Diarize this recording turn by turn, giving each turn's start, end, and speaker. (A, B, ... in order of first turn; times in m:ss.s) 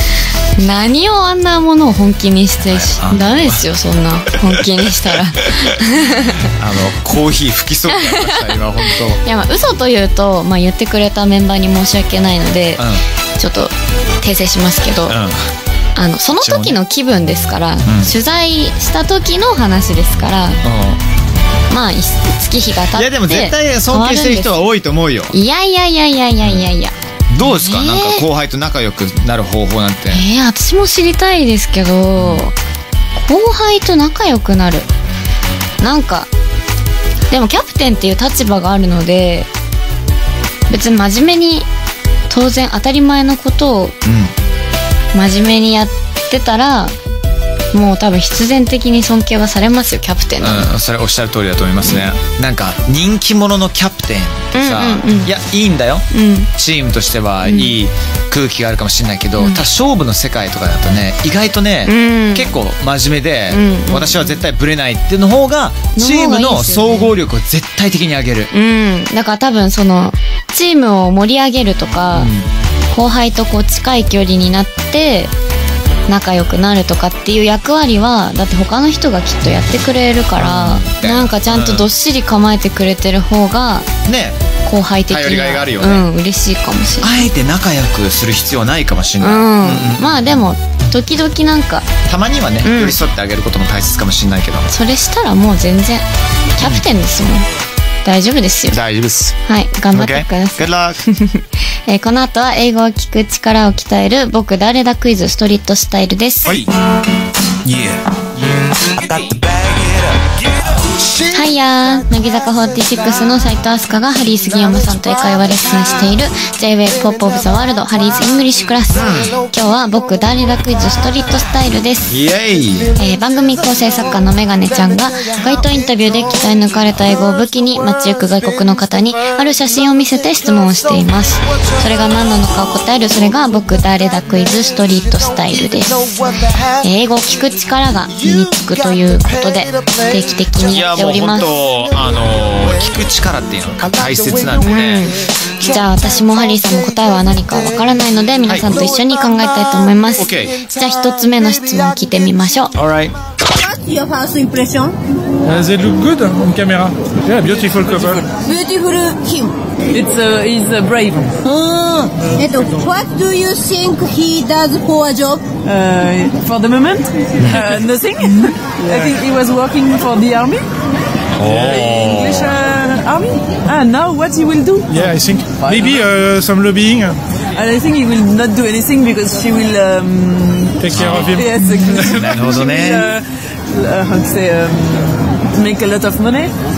0:00.6-0:06.5 A
0:02.6-0:03.6 B
0:06.4-0:09.2 B
0:07.9-0:12.9 A
0:12.8-0:13.0 B
0:13.4-0:15.2 A
0:15.1-0:15.5 B
0:16.0-0:20.6 A
0:16.4-0:16.8 B
0:17.8-0:18.1 B
0:20.6-0:21.0 B
0:21.7-0:24.6 A
0:22.9-0:25.4 B
0:25.3-0:28.2 A
0:26.4-0:26.7 B
0:27.3-0:30.2 B
0:30.1-0:32.6 A
0:32.2-0:32.4 B
0:33.2-0:34.9 A
0:35.8-0:36.3 A
0:37.3-0:39.5 A
0:40.7-0:41.7 A
0:42.3-0:44.0 A
0:44.0-0:44.3 B
0:45.1-0:46.9 A
0:47.7-0:50.7 A
0:50.4-1:08.5 B
0:54.5-0:55.3 A
0:56.1-0:56.5 A
0:57.4-0:57.8 A
1:01.9-1:02.5 A
1:03.5-1:04.4 A
1:06.0-1:07.1 A
1:08.5-1:12.3 A
1:12.1-1:12.5 B
1:12.9-1:15.3 A
1:16.1-1:23.9 A
1:20.4-1:21.9 B
1:24.1-1:24.4 B
1:24.6-1:27.2 A
1:25.1-1:26.1 B
1:27.0-1:30.4 B
1:29.2-1:31.9 A
1:32.1-1:34.7 B
1:32.6-1:33.0 A
1:34.7-1:37.5 A
1:38.0-1:38.8 A
1:38.7-1:39.4 B
1:39.5-1:46.6 A
1:39.9-1:41.0 B
1:46.4-1:46.7 B
1:47.7-1:48.0 B
1:51.3-2:02.2 A
1:58.9-1:59.4 B
2:02.1-2:02.9 B
2:03.0-2:21.6 A
2:20.7-2:25.1 B
2:24.6-2:32.7 A
2:28.5-2:28.8 B
2:30.2-2:30.6 B
2:32.8-2:33.2 B
2:33.5-2:35.0 C
2:35.4-2:38.2 D
2:37.7-2:38.2 E
2:38.4-2:39.6 C
2:39.9-2:41.4 E
2:41.4-2:45.5 C
2:45.6-2:50.7 E
2:47.4-2:47.6 B
2:51.4-2:52.6 B
2:51.4-2:56.1 E
2:54.9-2:57.2 D
2:57.5-3:06.5 E
3:00.8-3:02.3 D
3:00.9-3:01.4 B
3:02.0-3:03.1 B